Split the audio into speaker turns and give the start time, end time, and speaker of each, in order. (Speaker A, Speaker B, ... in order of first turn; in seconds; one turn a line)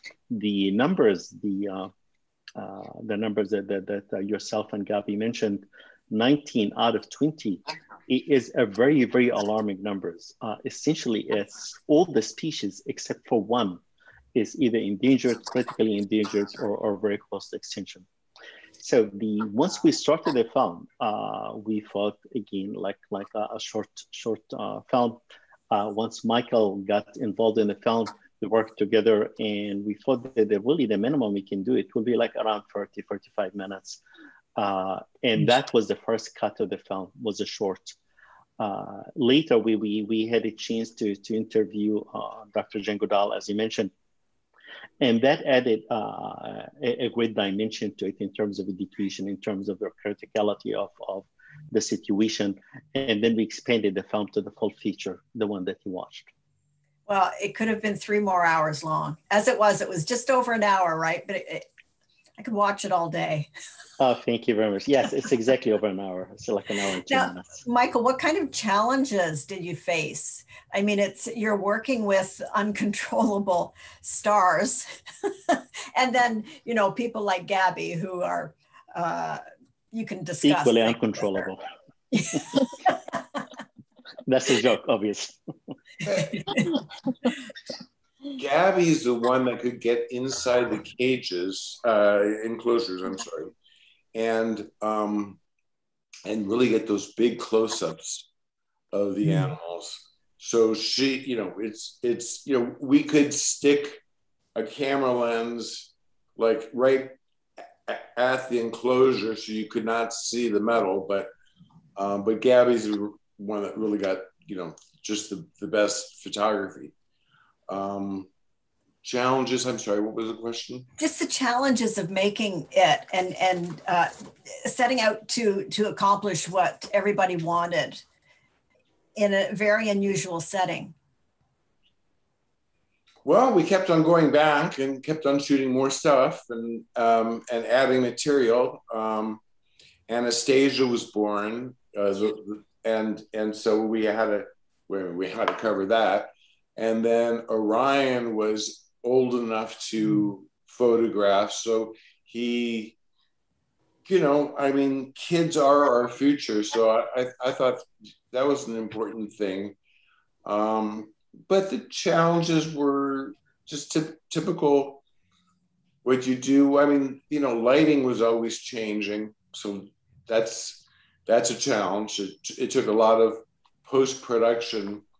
Speaker A: 0.3-1.9
Speaker A: 2.6-13.8
Speaker A: 14.3-18.1
Speaker A: 18.8-25.2
Speaker A: 25.7-34.0
Speaker A: 34.6-38.0
Speaker A: 38.6-43.9
Speaker A: 45.0-56.3
Speaker B: 57.1-61.7
Speaker B: 62.4-63.5
Speaker A: 64.0-67.6
Speaker B: 67.1-74.9
Speaker B: 75.5-81.0
Speaker A: 80.4-81.6
Speaker B: 82.1-83.0
Speaker A: 84.3-85.4
Speaker C: 86.0-86.4
Speaker B: 86.2-86.7
Speaker C: 88.4-93.5
Speaker C: 94.1-95.4
Speaker C: 96.2-98.3
Speaker C: 98.9-104.0
Speaker B: 99.2-99.5
Speaker C: 104.5-107.2
Speaker C: 107.9-111.3
Speaker C: 112.0-116.9
Speaker C: 117.7-118.3
Speaker C: 119.0-120.8
Speaker B: 121.0-124.1
Speaker B: 124.6-128.0
Speaker B: 129.2-130.9
Speaker C: 133.2-139.4
Speaker C: 140.1-153.0
Speaker C: 154.1-159.8
Speaker C: 160.4-165.0
Speaker C: 166.0-175.0